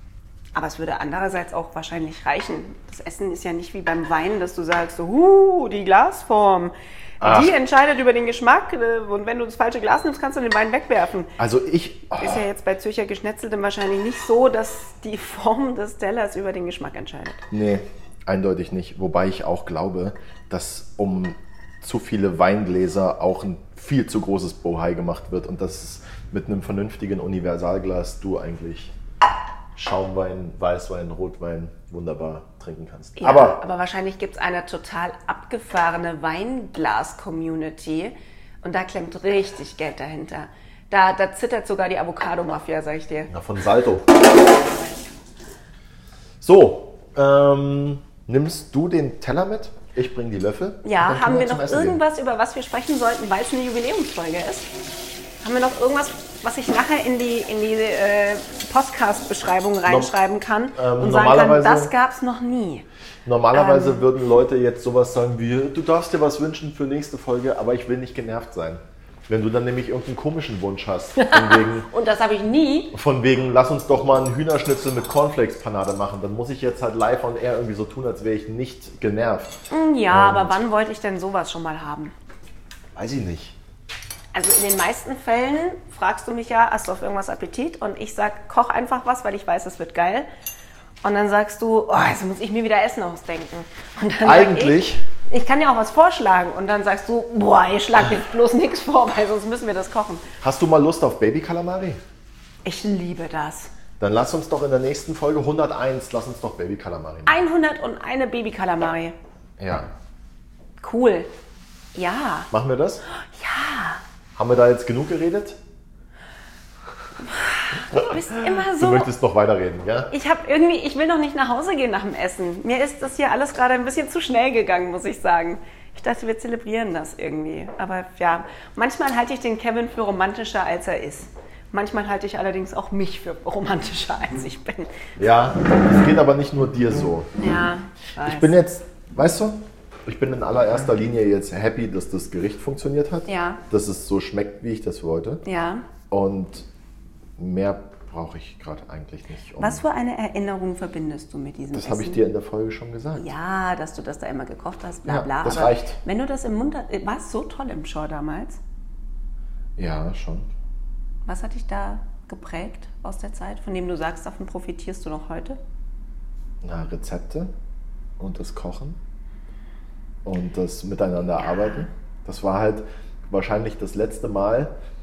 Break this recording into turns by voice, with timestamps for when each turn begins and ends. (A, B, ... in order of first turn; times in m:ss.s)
0:00.5-0:11.4 A
0:07.2-0:07.6 B
0:11.4-0:12.4 B
0:12.2-0:17.4 A
0:17.5-0:28.9 B
0:29.8-0:33.6 B
0:33.2-0:43.3 A
0:43.3-0:44.1 B
0:46.4-0:52.0 B
0:50.8-0:54.7 A
0:55.4-1:02.8 A
0:59.9-1:00.1 B
1:00.8-1:01.9 B
1:03.2-1:11.9 B
1:03.5-1:04.0 A
1:11.2-1:13.0 A
1:12.9-1:19.6 B
1:19.7-1:22.1 A
1:20.1-1:20.6 B
1:23.0-1:23.6 B
1:24.3-1:30.3 A
1:31.0-1:40.3 A
1:34.2-1:35.0 B
1:40.4-1:42.0 B
1:42.6-1:43.7 A
1:44.0-1:47.4 B
1:47.3-1:49.2 A
1:49.6-1:49.9 B
1:50.8-1:51.3 A
1:52.0-1:52.5 A
1:52.5-1:53.0 B
1:53.1-1:54.0 A
1:54.4-1:55.6 B
1:57.2-1:59.1 A
1:57.9-2:00.1 B
2:00.1-2:15.1 A
2:15.2-2:17.3 B
2:17.4-2:18.6 A
2:18.2-2:25.4 B
2:23.3-2:23.6 A
2:25.4-2:25.9 A
2:26.1-2:26.7 B
2:27.4-2:29.8 B
2:29.6-2:32.2 A
2:31.7-2:33.3 B
2:33.2-2:38.6 A
2:35.1-2:36.0 B
2:39.8-2:40.5 B
2:41.3-2:45.6 A
2:46.6-2:47.5 B
2:48.2-2:49.0 B
2:50.2-2:54.7 B
2:51.4-2:51.9 A